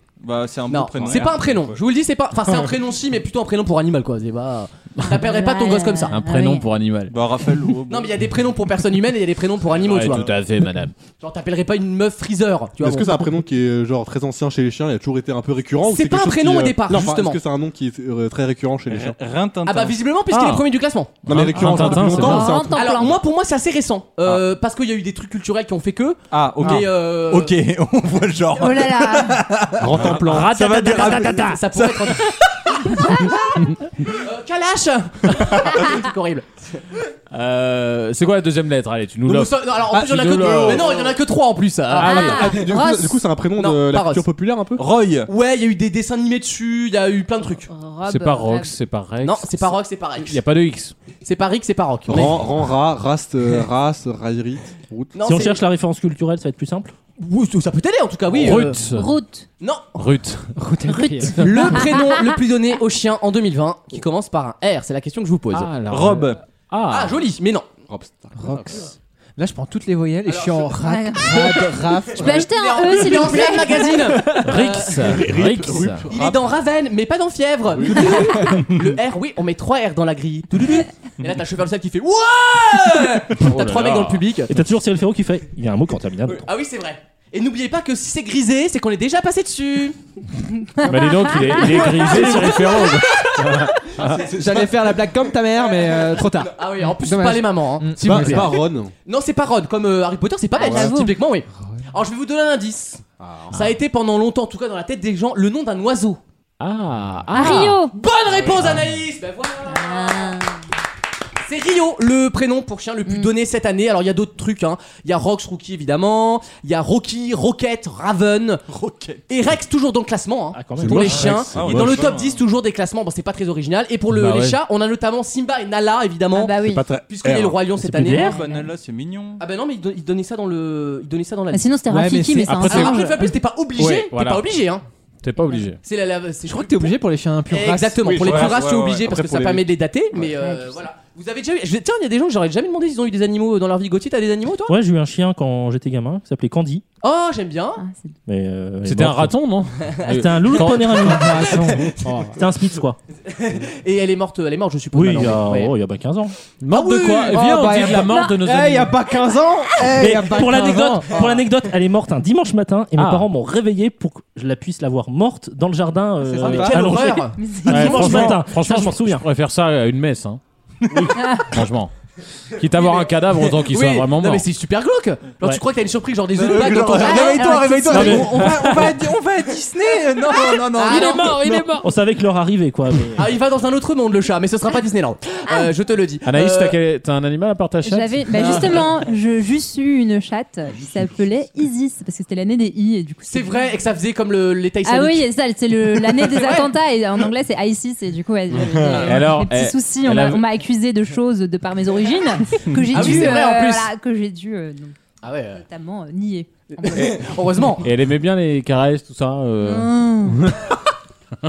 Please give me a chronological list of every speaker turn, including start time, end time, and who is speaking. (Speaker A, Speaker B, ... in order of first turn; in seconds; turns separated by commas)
Speaker A: 0.2-1.8, Speaker B: 0.7-6.2, Speaker C: 5.1-6.6, Speaker D: 6.1-7.1, Speaker A: 7.1-8.2, Speaker B: 7.9-10.3, Speaker D: 9.7-10.9, Speaker B: 11.2-13.3, Speaker E: 12.8-19.2, Speaker B: 15.8-17.4, Speaker A: 18.9-20.0, Speaker B: 19.6-27.6, Speaker D: 20.3-20.7, Speaker E: 21.2-23.1, Speaker D: 21.3-22.6, Speaker C: 21.7-23.2, Speaker A: 26.3-32.1, Speaker C: 28.6-29.4, Speaker E: 29.8-31.3, Speaker D: 29.9-31.6, Speaker B: 30.8-33.3, Speaker B: 34.0-36.8, Speaker D: 37.3-41.0, Speaker B: 39.2-42.6, Speaker E: 40.4-41.2, Speaker C: 42.0-43.2, Speaker E: 42.0-44.9, Speaker B: 43.6-44.3, Speaker A: 44.8-45.3, Speaker B: 45.3-47.7, Speaker C: 47.7-48.7, Speaker D: 48.1-50.9, Speaker B: 49.2-50.4, Speaker B: 51.2-52.5, Speaker E: 52.1-55.1, Speaker B: 55.1-55.6, Speaker F: 55.2-56.9, Speaker B: 57.2-58.8, Speaker D: 58.3-59.1, Speaker C: 58.9-59.5, Speaker B: 59.6-60.0, Speaker D: 60.0-60.5, Speaker G: 60.6-61.7, Speaker C: 61.1-62.1, Speaker B: 61.3-65.8, Speaker D: 65.5-67.2, Speaker A: 65.9-66.4, Speaker B: 66.9-67.7, Speaker E: 67.9-68.9, Speaker G: 68.4-68.8, Speaker G: 69.4-72.5, Speaker B: 70.3-70.7, Speaker C: 70.8-74.2, Speaker B: 72.2-75.2, Speaker D: 74.3-76.0, Speaker E: 75.0-76.5, Speaker B: 76.1-84.5, Speaker E: 77.7-78.6, Speaker D: 83.4-84.3, Speaker F: 84.5-86.5, Speaker B: 86.3-90.0, Speaker D: 90.8-94.1, Speaker B: 91.5-95.0, Speaker G: 94.2-98.6, Speaker B: 95.8-106.2, Speaker E: 98.0-98.9, Speaker C: 100.5-101.2, Speaker E: 103.2-103.8, Speaker D: 106.6-107.8, Speaker C: 107.3-107.9, Speaker B: 107.4-110.4, Speaker E: 108.4-108.7, Speaker C: 109.7-110.5, Speaker B: 111.4-118.7, Speaker A: 118.7-119.3, Speaker B: 119.3-128.4, Speaker F: 120.5-121.5, Speaker E: 120.8-122.3, Speaker A: 121.1-122.4, Speaker D: 124.1-124.6, Speaker C: 126.3-126.8, Speaker E: 126.6-127.8, Speaker F: 127.8-128.4, Speaker C: 128.1-128.7, Speaker A: 128.3-129.4, Speaker B: 129.4-131.8, Speaker C: 131.5-133.0, Speaker G: 131.9-133.1, Speaker D: 132.5-133.2, Speaker B: 132.5-134.8, Speaker D: 133.8-134.4, Speaker D: 135.2-135.8, Speaker B: 135.8-137.0, Speaker G: 136.5-138.1, Speaker B: 137.5-144.8, Speaker E: 138.0-140.4, Speaker A: 138.3-139.1, Speaker C: 140.4-140.7, Speaker F: 144.7-146.8, Speaker B: 147.0-147.8, Speaker C: 147.8-148.1, Speaker F: 148.3-149.3, Speaker D: 148.8-151.2, Speaker B: 150.0-152.2, Speaker F: 150.1-151.8, Speaker G: 151.0-152.4, Speaker F: 152.3-153.0, Speaker B: 153.2-155.8, Speaker F: 154.9-156.3, Speaker D: 156.6-159.0, Speaker B: 156.7-157.5, Speaker G: 157.3-161.4, Speaker C: 158.0-158.3, Speaker F: 159.9-169.2, Speaker B: 161.1-161.4, Speaker D: 163.0-163.3, Speaker G: 166.3-167.0, Speaker B: 166.4-168.4, Speaker C: 167.4-168.1, Speaker D: 167.7-170.4, Speaker D: 170.9-171.9, Speaker C: 171.2-171.5, Speaker D: 172.6-174.5, Speaker B: 172.6-178.9, Speaker A: 176.4-181.6, Speaker C: 177.0-178.4, Speaker F: 177.9-178.6, Speaker D: 178.4-178.8, Speaker B: 180.2-181.4, Speaker F: 180.8-183.3, Speaker D: 181.1-181.9, Speaker B: 183.2-186.8, Speaker D: 186.2-188.8, Speaker C: 187.8-193.8, Speaker B: 188.3-188.9, Speaker B: 193.3-195.3, Speaker C: 194.9-205.0, Speaker B: 195.9-196.7, Speaker B: 198.7-199.1, Speaker D: 198.8-200.4, Speaker B: 202.9-203.9, Speaker B: 205.2-205.6, Speaker C: 205.6-207.2, Speaker B: 206.8-207.8, Speaker D: 207.8-210.6, Speaker C: 209.6-210.4